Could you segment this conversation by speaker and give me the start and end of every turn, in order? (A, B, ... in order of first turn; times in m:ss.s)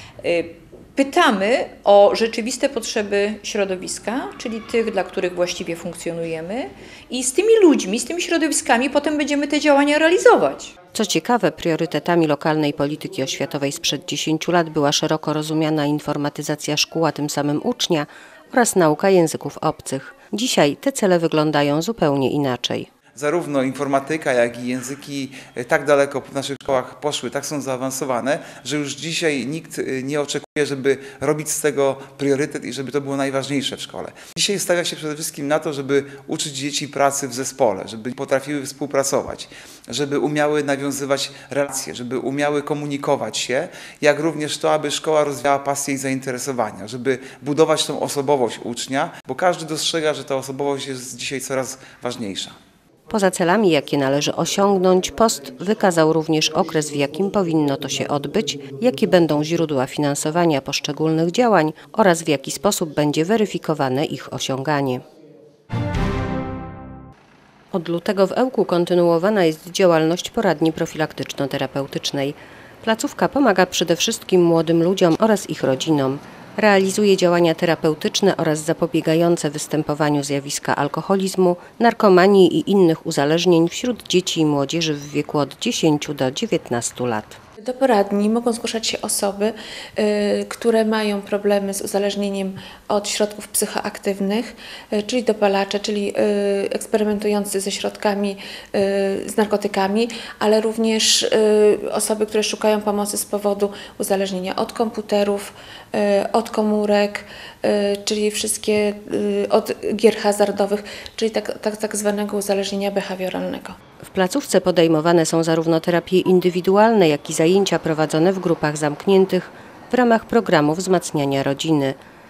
0:00.2-0:10.7 A
0:10.9-0:22.9 B
0:23.1-0:52.5 C
0:53.1-1:05.0 B
1:07.7-1:27.4 B
1:27.6-1:53.7 D
1:54.0-2:02.0 B